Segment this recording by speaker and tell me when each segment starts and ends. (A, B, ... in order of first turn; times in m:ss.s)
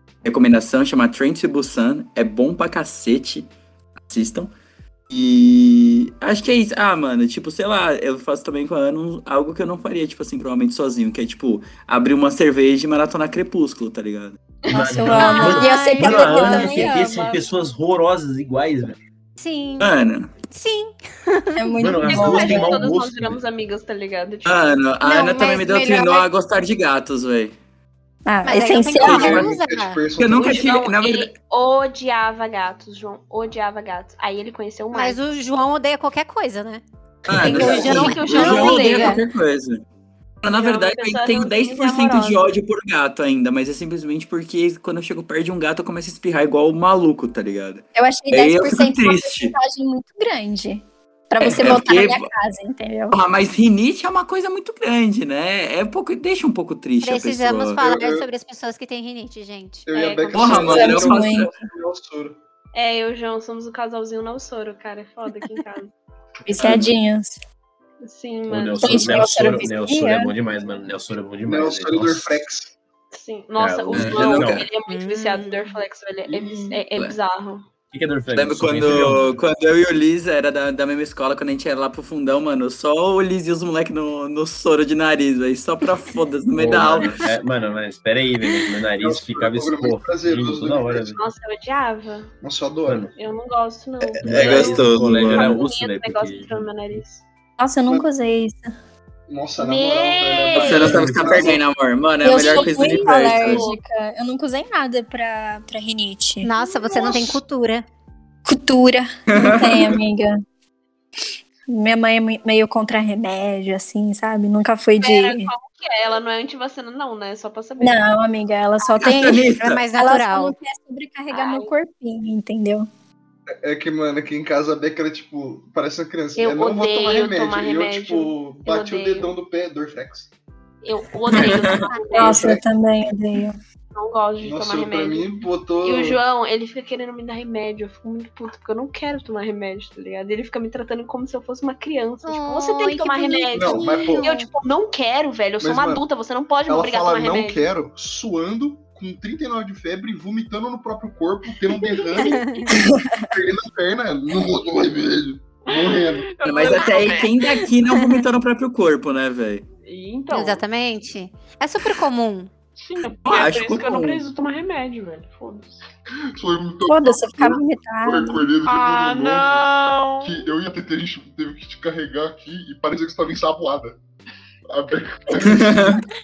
0:00.2-0:03.5 A
0:04.0-0:04.5 A
0:05.1-0:14.4 A
0:14.6-0:15.6 B
0:14.7-0:17.4 C
0:14.7-0:19.0 D
0:15.1-0:16.9 E
0:19.4-0:19.9 E
0:19.8-0:20.3 A
0:20.5-0:21.7 E
0:21.6-0:22.8 C
0:21.8-0:23.4 D
0:22.0-0:24.8 B
0:24.4-0:27.5 A
0:25.0-0:26.3 E
0:28.2-0:29.5 C
0:28.4-0:30.0 E
0:28.9-0:30.7 F
0:29.0-0:29.5 A
0:30.2-0:31.3 A
0:30.3-0:35.2 B
0:34.9-0:36.8 E
0:37.2-0:39.8 A
0:37.4-0:39.2 E
0:37.4-0:38.1 F
0:37.4-0:39.2 B
0:40.4-0:49.6 A
0:40.5-0:42.4 B
0:47.9-0:53.2 C
0:51.4-0:52.3 A
0:53.1-0:57.8 A
0:57.0-0:59.9 E
0:57.8-0:58.2 F
0:59.9-1:02.4 F
0:59.9-1:01.0 B
1:00.3-1:01.5 A
1:00.6-1:01.5 C
1:02.7-1:05.9 B
1:06.4-1:07.4 C
1:06.6-1:06.9 A
1:08.0-1:09.7 B
1:08.5-1:12.3 D
1:08.8-1:10.3 C
1:11.4-1:12.7 F
1:13.1-1:17.6 B
1:13.6-1:14.7 D
1:13.9-1:14.7 A
1:14.9-1:15.7 E
1:16.3-1:16.8 F
1:17.9-1:19.4 D
1:18.3-1:27.2 A
1:26.5-1:31.2 D
1:29.0-1:31.1 F
1:31.1-1:32.3 B
1:32.4-1:33.1 F
1:32.8-1:33.1 D
1:33.1-1:37.2 B
1:34.0-1:35.6 A
1:34.2-1:36.7 D
1:37.6-1:38.7 C
1:39.3-1:41.6 F
1:39.6-1:40.9 B
1:40.5-1:43.7 A
1:40.7-1:41.5 D
1:42.2-1:46.5 C
1:42.3-1:43.8 B
1:46.4-1:47.8 E
1:46.6-1:47.3 B
1:48.4-1:50.4 C
1:49.3-1:50.0 A
1:51.7-1:55.5 C
1:55.0-1:58.0 B
1:57.8-2:02.9 C
1:59.0-1:59.8 A
1:59.2-2:00.5 E
2:01.3-2:01.7 B
2:03.6-2:10.3 F
2:06.4-2:09.3 B
2:10.8-2:12.6 B
2:11.3-2:11.9 A
2:11.9-2:12.1 E
2:12.1-2:13.6 C
2:12.2-2:12.6 F
2:13.9-2:15.3 B
2:14.4-2:16.2 F
2:15.8-2:27.7 B
2:22.2-2:24.5 E
2:23.5-2:24.3 F
2:25.6-2:26.0 F
2:26.7-2:36.3 F
2:31.9-2:32.6 B
2:32.2-2:32.7 E
2:32.7-2:33.3 C
2:35.7-2:37.6 B
2:36.4-2:39.6 A
2:39.8-2:40.6 B
2:40.3-2:42.5 E
2:42.8-2:45.8 B
2:43.2-2:44.2 A
2:46.3-2:49.7 F
2:46.8-2:48.4 C
2:48.6-2:50.5 B
2:50.2-2:54.0 F
2:54.7-2:56.0 F
2:55.4-2:56.0 A